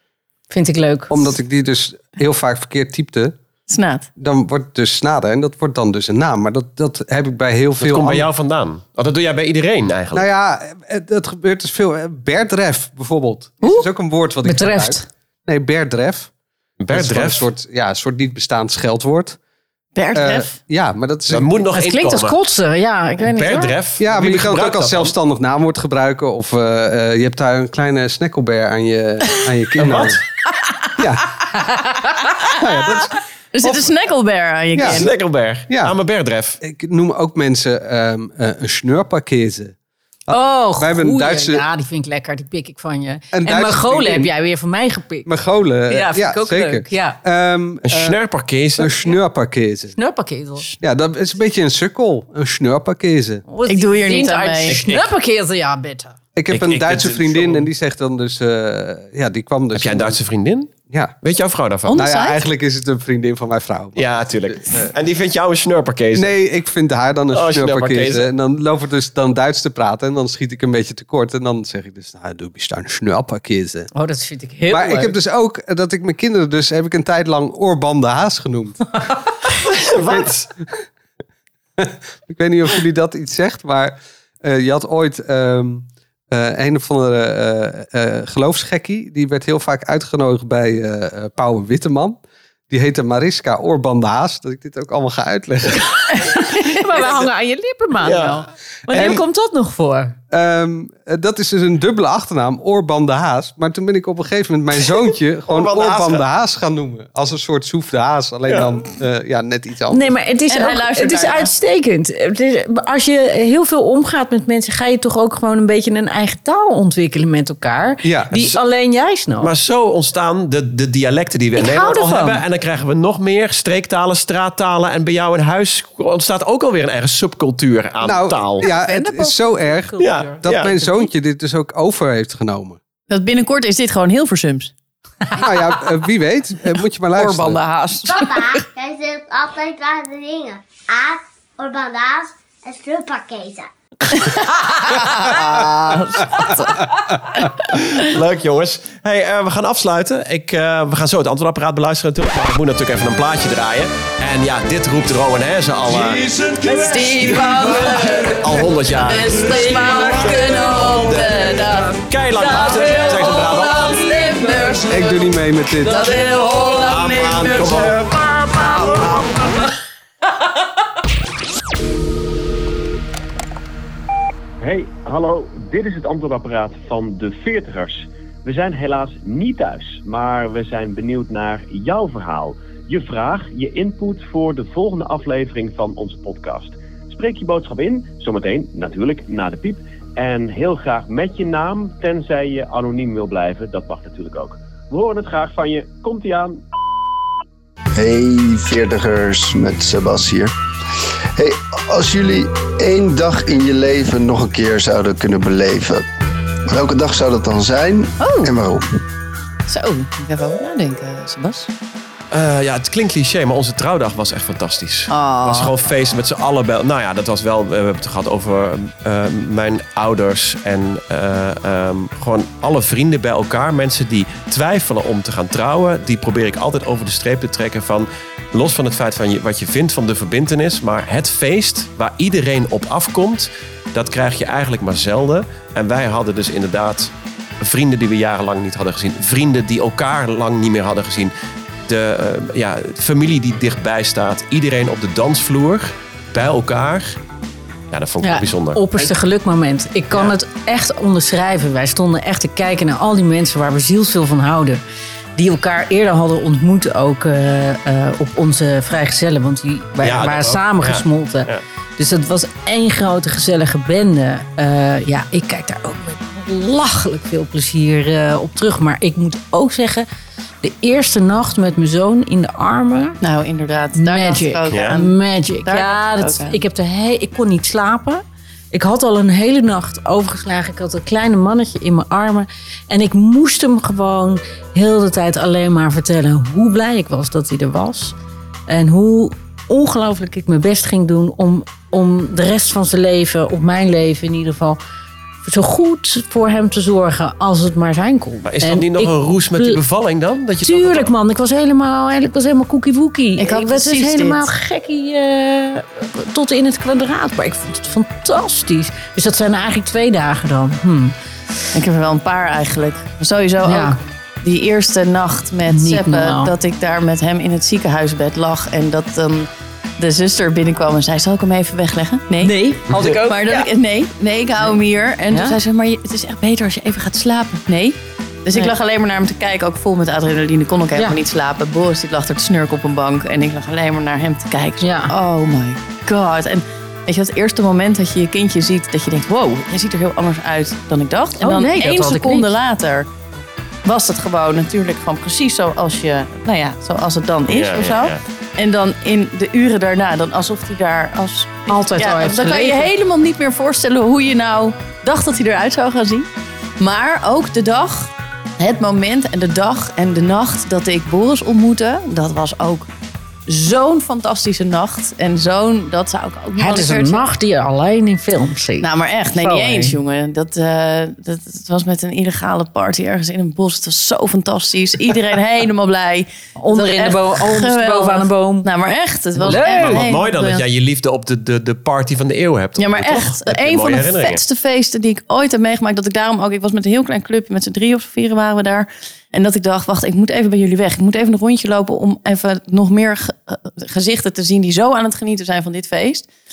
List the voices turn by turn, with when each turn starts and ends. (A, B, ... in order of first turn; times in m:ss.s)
0:00.5-0:01.3 A
0:01.1-0:03.4 B
0:03.7-0:04.1 C
0:04.2-0:08.3 B
0:07.8-0:10.3 D
0:10.1-0:16.3 B
0:14.4-0:15.1 A
0:16.8-0:17.5 D
0:16.9-0:19.4 B
0:20.0-0:20.5 C
0:20.2-0:21.5 B
0:21.3-0:22.4 D
0:21.7-0:23.8 A
0:23.2-0:25.1 D
0:24.0-0:30.2 B
0:29.8-0:30.2 D
0:31.0-0:31.4 B
0:31.6-0:32.2 A
0:32.5-0:33.9 B
0:33.5-0:35.1 C
0:34.8-0:35.0 B
0:34.8-0:36.6 D
0:35.7-0:36.0 B
0:36.6-0:39.8 B
0:40.3-0:41.6 B
0:40.3-0:45.3 A
0:43.3-0:44.3 B
0:45.3-0:48.2 B
0:45.9-0:47.2 A
0:47.8-0:49.0 D
0:48.8-0:50.0 B
0:50.0-0:50.7 A
0:50.8-0:53.5 B
0:53.5-0:56.2 A
0:53.6-0:54.9 C
0:56.4-1:00.2 B
0:56.5-0:57.7 D
0:59.7-1:02.0 D
1:00.9-1:01.2 B
1:01.9-1:02.4 C
1:02.0-1:04.1 B
1:04.0-1:06.4 D
1:04.6-1:04.9 B
1:06.2-1:13.9 B
1:07.3-1:08.3 D
1:13.9-1:15.1 A
1:14.7-1:19.2 B
1:19.6-1:20.5 D
1:21.8-1:36.0 B
1:36.1-1:40.2 A
1:38.0-1:38.4 D
1:38.9-1:39.2 B
1:40.3-1:50.1 B
1:45.5-1:46.3 D
1:49.9-1:59.5 A
1:50.5-1:51.5 C
1:58.0-1:58.6 B
1:59.4-2:08.7 D
2:01.6-2:02.4 A
2:08.0-2:12.8 B
2:08.6-2:09.2 C
2:09.2-2:10.4 A
2:10.0-2:10.8 D
2:13.1-2:14.7 C
2:15.4-2:17.6 B
2:17.1-2:18.5 C
2:18.2-2:23.7 E
2:24.1-2:28.1 C
2:27.9-2:36.3 D
2:36.5-2:42.0 C
2:36.6-2:38.1 A
2:38.2-2:41.3 D
2:39.4-2:41.4 A
2:42.1-2:44.0 D
2:42.4-2:44.9 A
2:44.0-2:44.9 C
2:44.9-2:46.0 B
2:45.9-2:47.9 A
2:45.9-2:47.9 C
2:46.8-2:49.5 D
2:54.6-3:16.6 F
3:18.0-3:20.5 G
3:21.4-3:26.1 G
3:26.7-3:28.9 G
3:28.2-3:28.5 C
3:29.7-3:31.7 C
3:32.3-4:01.3 D
3:35.1-3:35.8 C
4:01.9-4:07.2 D
4:07.9-4:09.1 D
4:08.2-4:14.8 A
4:15.4-4:30.1 A
4:20.0-4:21.6 D
4:30.6-4:33.2 A
4:33.2-4:36.6 C
4:34.0-4:48.2 A
4:34.7-4:35.0 D
4:48.7-4:54.8 A
4:55.4-4:59.8 A
4:58.4-5:01.1 D
5:00.6-5:11.1 A
5:03.4-5:04.5 C
5:11.7-5:43.1 C
5:13.6-5:14.0 A
5:15.7-5:16.5 A
5:22.4-5:23.7 A
5:22.9-5:23.2 D
5:25.3-5:25.6 A
5:34.8-5:35.1 A
5:41.4-5:42.5 A
5:43.8-5:56.3 C
5:47.5-5:48.2 D
5:51.7-5:52.9 A
5:56.8-6:02.9 C
6:03.5-6:07.3 C
6:06.6-6:10.0 A
6:08.8-6:20.6 C
6:16.6-6:18.7 A
6:19.4-6:24.4 D
6:19.4-6:20.0 A
6:22.8-6:36.3 C